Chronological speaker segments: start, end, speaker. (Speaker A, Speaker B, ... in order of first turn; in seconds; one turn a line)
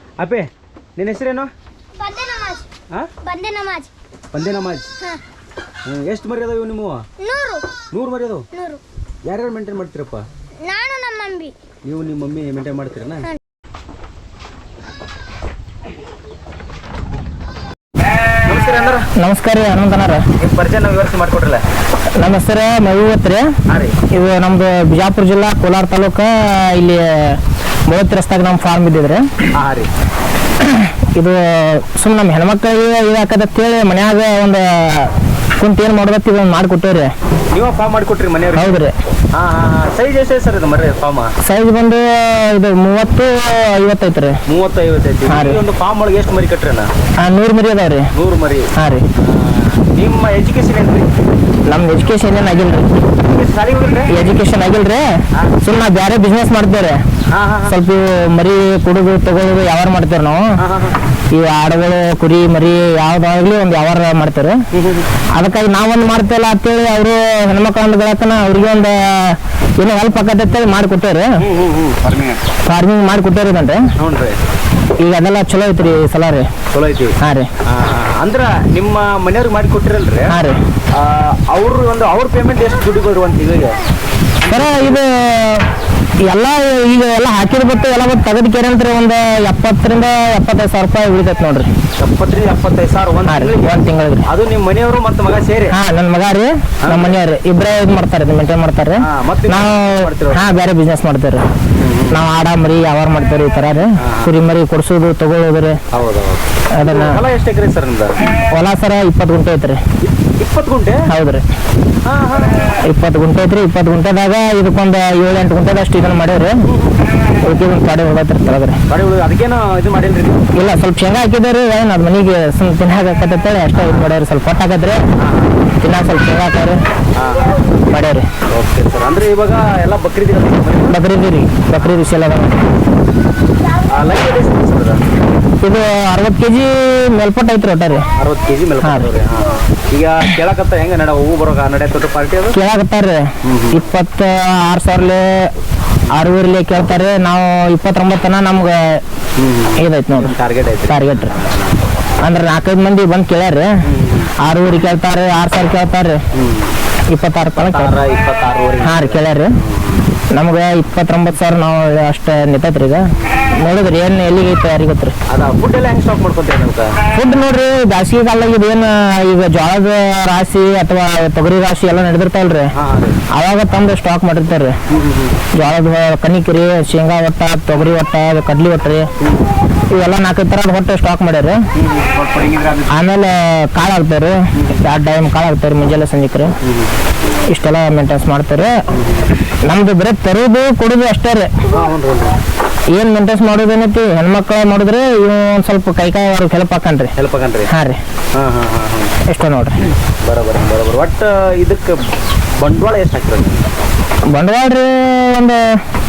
Speaker A: 0.2-1.5
Speaker B: 2.0-2.7
Speaker B: 3.2-3.9
Speaker A: 4.3-4.9
Speaker A: 5.9-7.1
Speaker B: 7.2-7.7
Speaker A: 7.9-8.5
Speaker B: 8.5-8.8
Speaker A: 9.2-10.3
Speaker B: 10.6-11.6
Speaker A: 11.8-13.3
Speaker A: 18.4-19.1
Speaker C: 19.1-20.3
Speaker A: 20.4-21.6
Speaker C: 22.2-23.5
Speaker A: 23.7-24.0
Speaker C: 24.1-29.3
Speaker A: 29.5-29.9
Speaker C: 30.6-37.1
Speaker A: 37.5-41.3
Speaker C: 38.5-38.9
Speaker C: 41.4-44.4
Speaker A: 44.5-46.9
Speaker C: 45.3-45.6
Speaker C: 47.2-48.1
Speaker A: 48.1-51.1
Speaker C: 48.8-49.0
Speaker C: 51.7-53.0
Speaker A: 53.1-54.1
Speaker C: 54.1-57.0
Speaker A: 57.3-57.8
Speaker C: 57.7-60.6
Speaker A: 60.6-61.0
Speaker C: 61.3-64.6
Speaker A: 64.7-65.2
Speaker C: 65.3-71.4
Speaker A: 71.4-72.5
Speaker C: 72.7-73.9
Speaker A: 74.0-74.4
Speaker C: 75.0-76.5
Speaker A: 76.7-80.4
Speaker C: 77.2-77.5
Speaker C: 80.3-80.6
Speaker A: 80.9-83.8
Speaker A: 84.4-85.0
Speaker C: 84.5-85.7
Speaker C: 86.2-91.7
Speaker A: 92.0-95.8
Speaker C: 93.3-94.3
Speaker C: 95.7-101.4
Speaker A: 96.8-97.2
Speaker A: 99.0-100.7
Speaker A: 101.8-102.2
Speaker C: 102.1-105.8
Speaker A: 104.0-104.4
Speaker A: 105.9-108.2
Speaker C: 106.7-107.2
Speaker C: 108.4-109.8
Speaker A: 110.0-111.0
Speaker C: 111.1-111.4
Speaker A: 112.0-112.8
Speaker C: 112.8-116.7
Speaker A: 116.7-117.0
Speaker C: 117.4-118.8
Speaker A: 118.9-120.5
Speaker C: 120.6-125.0
Speaker A: 123.7-124.2
Speaker A: 125.2-125.6
Speaker C: 125.8-126.8
Speaker A: 127.2-127.7
Speaker C: 127.9-128.3
Speaker A: 128.5-131.0
Speaker C: 130.9-132.6
Speaker A: 131.8-132.1
Speaker A: 133.7-135.0
Speaker C: 135.6-138.1
Speaker A: 138.1-142.6
Speaker C: 138.8-139.1
Speaker C: 142.5-145.5
Speaker A: 143.4-143.9
Speaker C: 146.1-149.0
Speaker A: 149.4-151.8
Speaker C: 149.8-150.3
Speaker C: 150.9-151.3
Speaker C: 152.2-153.9
Speaker A: 153.8-154.4
Speaker C: 154.4-156.2
Speaker A: 156.3-156.8
Speaker C: 157.1-157.9
Speaker A: 157.4-160.2
Speaker C: 158.8-159.6
Speaker C: 160.3-165.2
Speaker A: 163.2-163.6
Speaker A: 165.3-167.0
Speaker C: 167.1-172.8
Speaker A: 172.7-173.2
Speaker C: 173.3-174.8
Speaker A: 174.9-175.4
Speaker C: 175.5-179.1
Speaker A: 179.2-179.5
Speaker C: 179.9-181.7
Speaker A: 181.8-183.0
Speaker C: 182.9-186.6
Speaker A: 184.6-184.8
Speaker A: 186.6-187.4
Speaker C: 187.5-188.8
Speaker A: 188.9-189.3
Speaker C: 189.6-191.6
Speaker A: 191.7-192.4
Speaker C: 192.9-197.1
Speaker A: 197.2-197.7
Speaker C: 197.7-198.0
Speaker A: 198.3-199.2
Speaker C: 199.2-199.8
Speaker A: 200.1-202.0
Speaker A: 202.6-203.7
Speaker C: 204.3-205.8